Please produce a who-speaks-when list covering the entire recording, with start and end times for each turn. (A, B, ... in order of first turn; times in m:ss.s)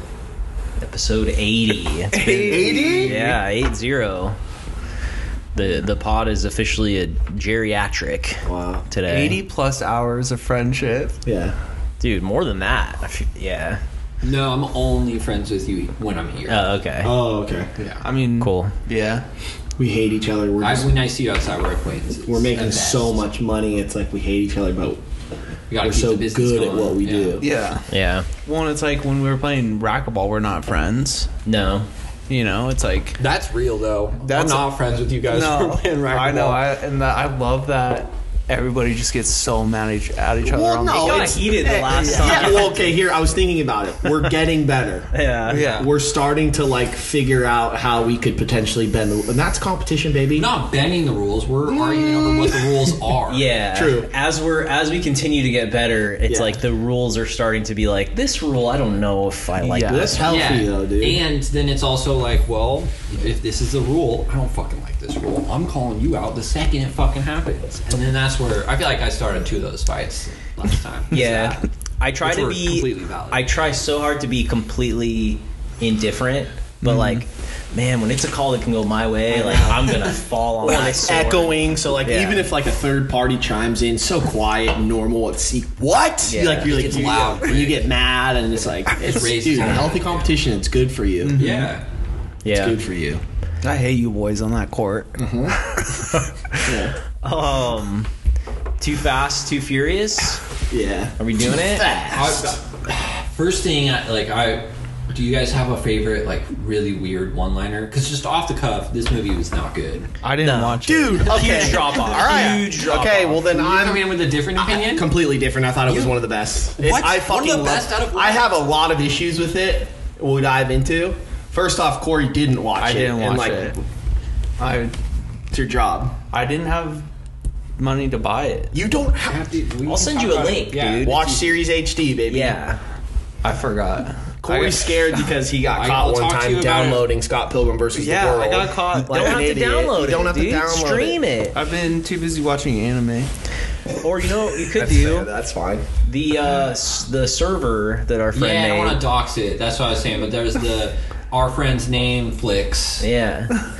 0:00.8-0:04.4 A
0:02.1-0:03.3 B
0:02.5-0:03.4 C
0:05.6-0:09.4 A
0:08.4-0:08.9 C
0:09.1-0:11.2 B
0:11.3-0:11.6 C
0:12.0-0:13.8 A
0:14.2-0:16.6 D
0:16.5-0:17.1 A
0:17.0-0:17.7 C
0:18.0-0:19.2 B
0:18.4-0:18.7 A
0:19.8-0:21.0 C
0:20.6-0:23.2 D
0:22.3-0:25.0 C
0:25.7-0:27.4 D
0:25.8-0:27.5 C
0:27.4-0:27.9 B
0:27.9-0:28.3 A
0:28.4-0:31.3 B
0:31.5-0:31.9 A
0:32.3-0:33.2 B
0:33.2-0:36.6 D
0:34.2-0:34.7 B
0:35.3-0:42.7 B
0:40.4-0:45.1 C
0:40.9-0:42.8 A
0:45.1-0:45.6 A
0:45.5-0:45.9 B
0:45.5-0:45.9 D
0:45.6-0:50.5 C
0:50.4-0:53.5 D
0:51.7-0:52.8 C
0:53.3-1:00.2 A
0:53.7-0:54.1 C
0:56.3-0:56.6 C
0:59.6-1:00.2 B
0:59.8-1:01.2 C
1:00.2-1:11.7 D
1:11.1-1:22.5 A
1:12.2-1:13.5 D
1:19.3-1:31.5 C
1:20.7-1:21.0 D
1:26.3-1:26.8 A
1:26.6-1:27.8 D
1:29.0-1:30.4 D
1:31.2-1:31.7 B
1:31.4-1:31.8 D
1:32.4-1:32.8 A
1:32.5-1:33.2 C
1:33.6-1:36.1 B
1:35.2-1:35.6 C
1:36.6-1:37.0 C
1:37.2-1:38.1 A
1:38.8-1:40.4 A
1:40.7-1:42.6 C
1:41.2-1:41.9 A
1:42.1-1:50.1 D
1:50.2-1:52.7 B
1:50.4-1:53.4 A
1:50.8-2:03.8 C
1:51.3-1:52.4 D
1:53.4-1:55.1 D
1:55.9-1:56.2 D
1:56.8-1:58.5 D
2:02.8-2:03.8 B
2:04.6-2:05.0 B
2:05.5-2:06.2 C
2:06.3-2:07.1 B
2:07.8-2:08.7 B
2:08.7-2:09.5 C
2:09.3-2:11.5 D
2:09.9-2:11.2 A
2:11.0-2:12.6 C
2:12.3-2:12.8 A
2:13.4-2:15.0 B
2:14.4-2:21.2 C
2:15.7-2:17.1 D
2:17.9-2:19.4 B
2:19.0-2:21.6 A
2:21.5-2:23.3 B
2:24.0-2:25.3 A
2:24.8-2:25.9 C
2:26.0-2:29.0 A
2:28.3-2:33.1 D
2:33.0-2:33.6 A